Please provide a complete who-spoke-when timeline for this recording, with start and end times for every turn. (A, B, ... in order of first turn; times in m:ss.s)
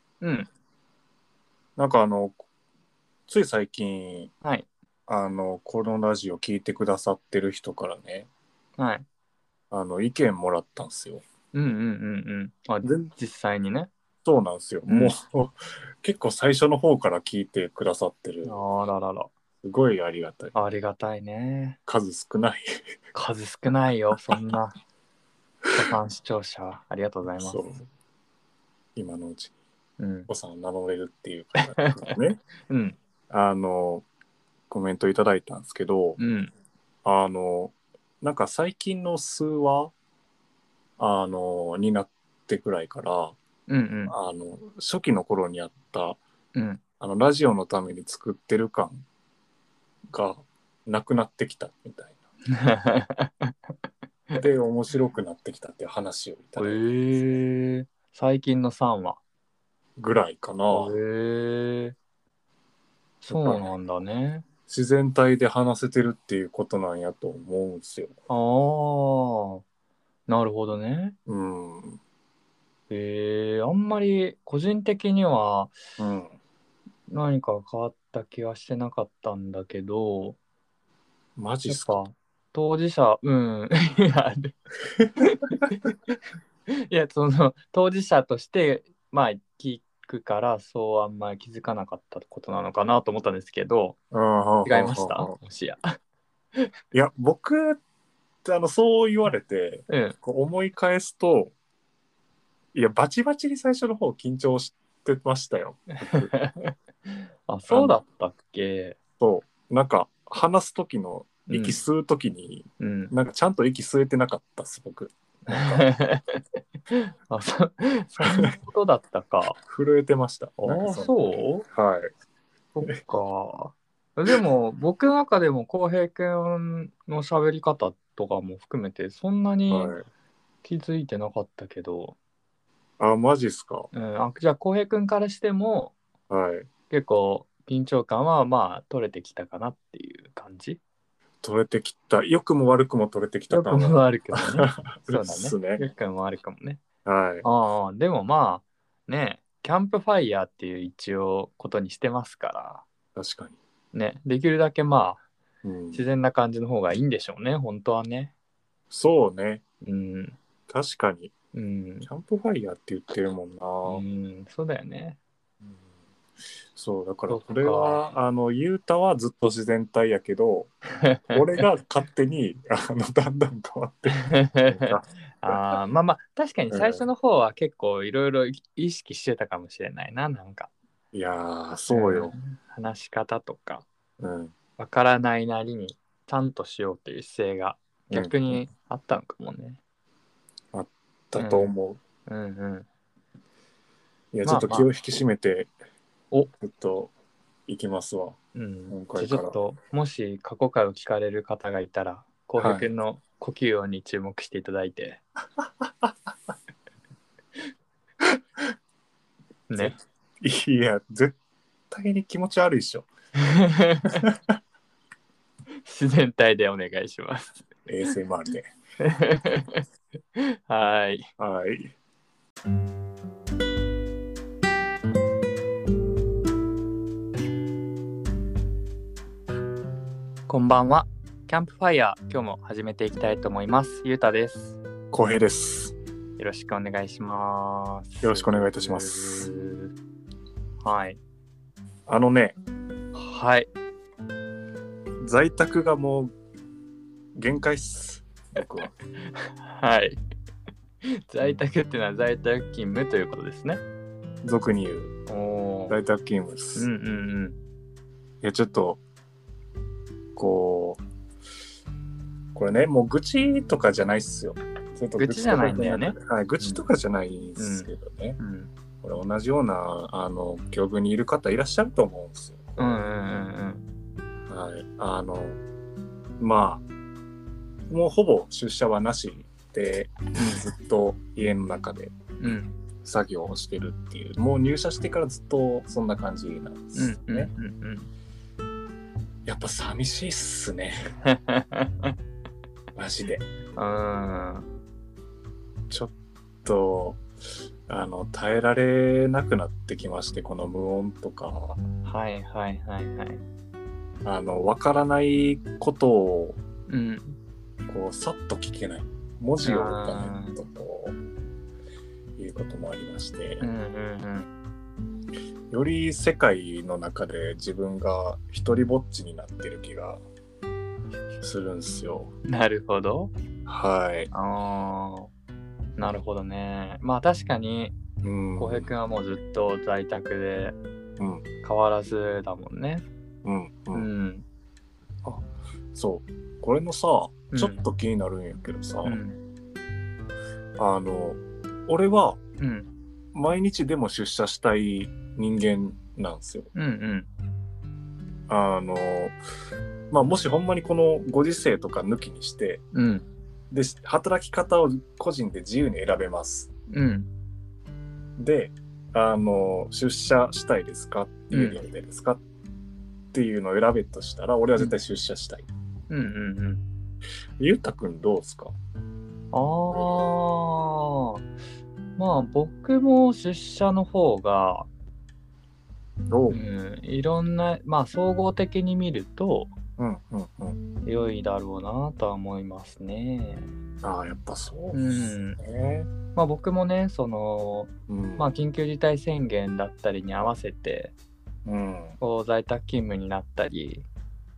0:00.2-0:00.5 A
0:01.8-0:02.4 B
0:03.3-0:04.3 B
0:04.4-0:04.7 A
0:05.1-0:08.3 B
0:08.8-0:09.0 A
0:09.7-0:11.2 B
0:11.5-0:13.9 A
0:12.8-0:13.1 B
0:14.2-0:18.6 B
0:14.9-0:15.1 A
0:18.4-0:19.3 A
0:19.6-0:20.5 B
0:20.5-0:21.8 A
0:21.8-0:22.7 B
0:23.1-0:24.7 A
0:25.6-0:25.9 B
0:25.8-0:27.6 A
0:27.4-0:27.8 B
0:29.0-0:29.5 B
0:30.0-0:30.3 A
0:30.3-0:32.4 B
0:31.8-0:32.1 A
0:32.7-0:33.0 A
0:33.3-0:34.0 B
0:34.7-0:36.2 B
0:36.2-0:36.5 A
0:37.0-0:39.9 B
0:41.0-0:43.4 B
0:43.7-0:44.1 A
0:44.1-0:46.2 B
0:46.5-0:46.8 A
0:47.0-0:49.0 B
0:50.1-0:52.2 B
0:52.5-0:53.7 A
0:54.3-0:57.4 B
0:56.6-0:59.2 A
1:00.0-1:01.0 B
1:00.7-1:02.0 A
1:03.2-1:04.4 A
1:03.3-1:03.7 B
1:04.7-1:08.2 B
1:08.3-1:09.6 A
1:10.3-1:11.2 A
1:11.2-1:12.0 B
1:12.9-1:15.8 A
1:16.0-1:16.4 B
1:17.1-1:20.4 A
1:21.4-1:22.0 B
1:21.6-1:24.6 A
1:25.0-1:25.7 B
1:25.2-1:26.2 A
1:26.7-1:34.0 A
1:34.1-1:35.4 B
1:34.6-1:35.9 A
1:36.9-1:37.8 B
1:38.4-1:41.5 B
1:39.9-1:40.2 A
1:42.7-1:46.3 B
1:46.0-1:46.7 A
1:47.5-1:49.0 A
1:47.7-1:48.0 B
1:49.2-1:55.9 B
1:51.5-1:51.8 A
1:52.8-1:53.1 A
1:55.5-1:59.6 A
1:58.2-1:58.5 B
1:59.6-2:02.1 B
2:00.6-2:01.6 A
2:02.7-2:10.0 A
2:09.7-2:10.0 B
2:10.6-2:12.2 A
2:13.0-2:13.9 B
2:13.9-2:15.9 A
2:16.3-2:16.7 B
2:16.9-2:20.8 A
2:21.4-2:25.9 B
2:23.5-2:26.8 A
2:27.0-2:27.4 B
2:27.4-2:32.8 A
2:33.1-2:33.6 B
2:33.9-2:35.2 A
2:35.6-2:36.0 B
2:35.9-2:38.3 A
2:38.9-2:39.6 B
2:39.8-2:40.4 A
2:40.7-2:41.3 B
2:41.5-2:42.1 A
2:42.0-2:44.0 B
2:43.8-2:45.2 A
2:46.7-2:50.7 B
2:47.3-2:48.0 A
2:51.0-2:51.4 A
2:51.3-2:55.8 B
2:54.2-3:00.7 A
2:56.7-2:57.0 B
3:01.1-3:02.4 B
3:01.9-3:03.8 A
3:04.2-3:04.5 B
3:04.8-3:09.8 A
3:08.1-3:08.6 B
3:10.7-3:12.0 B
3:11.4-3:11.7 A
3:12.2-3:12.9 A
3:14.3-3:15.7 B
3:14.4-3:14.9 A
3:16.6-3:17.1 B
3:17.7-3:18.4 B
3:18.5-3:25.2 A
3:18.9-3:19.6 B
3:22.6-3:22.9 B
3:29.7-3:29.9 A
3:29.8-3:31.4 B
3:31.9-3:33.1 B
3:33.4-3:34.2 A
3:34.1-3:34.5 B
3:35.8-3:37.7 A
3:37.8-3:38.7 B
3:39.0-3:39.8 A
3:40.3-3:41.3 A
3:41.4-3:41.9 B
3:50.5-3:54.8 A
3:55.1-3:56.0 B
3:56.4-3:59.9 A
3:58.2-3:59.5 B
4:00.8-4:01.2 A
4:02.1-4:02.6 B
4:03.1-4:03.7 A
4:05.2-4:06.3 B
4:07.3-4:08.9 B
4:09.2-4:10.2 A
4:11.0-4:13.8 A
4:14.4-4:15.2 B
4:15.3-4:16.0 A
4:15.9-4:16.9 B
4:16.8-4:17.6 A
4:18.4-4:19.0 B
4:20.4-4:21.0 B
4:22.5-4:28.4 B
4:25.2-4:26.8 A
4:27.6-4:28.7 A
4:29.0-4:33.0 B
4:32.8-4:33.8 A
4:34.5-4:35.6 B
4:36.4-4:36.8 B
4:37.9-4:47.5 B
4:40.4-4:40.7 A
4:42.4-4:42.7 A
4:46.9-4:48.1 A
4:49.4-4:51.0 B
4:51.2-4:52.1 A
4:52.9-4:53.5 B
4:53.8-4:54.7 A
4:55.9-4:57.2 B
4:57.9-5:01.8 B
5:02.0-5:03.4 A
5:04.2-5:06.6 B
5:06.9-5:07.4 A
5:07.9-5:11.2 B
5:09.6-5:10.6 A
5:12.4-5:13.6 B
5:13.6-5:14.5 A
5:15.7-5:20.2 B
5:21.4-5:22.3 B
5:22.5-5:23.3 A
5:23.6-5:24.3 B
5:24.3-5:25.3 A
5:26.0-5:28.0 A
5:28.2-5:28.9 B
5:28.6-5:30.8 A
5:31.2-5:31.4 B
5:31.6-5:33.0 A
5:33.4-5:34.1 B
5:33.9-5:34.4 A
5:35.2-5:39.2 B
5:37.5-5:37.8 A
5:39.0-5:39.4 A
5:40.8-5:42.4 B
5:42.6-5:42.9 A
5:43.3-5:46.7 B
5:46.7-5:47.3 A
5:48.5-5:49.4 B
5:50.1-5:52.8 B
5:52.9-5:53.3 A
5:53.7-5:56.7 B
5:56.9-5:57.3 A
5:58.4-6:02.4 B
6:01.5-6:01.8 A
6:03.3-6:05.7 B
6:06.1-6:06.8 A
6:07.6-6:08.7 B
6:09.5-6:11.5 A
6:09.9-6:10.2 B
6:12.2-6:14.9 A
6:16.3-6:16.6 B
6:16.5-6:19.7 A
6:20.0-6:20.8 B
6:21.0-6:23.7 A
6:24.0-6:26.1 B
6:24.9-6:25.6 A
6:26.3-6:31.1 A
6:28.1-6:28.5 B
6:31.6-6:32.2 B
6:32.2-6:34.0 A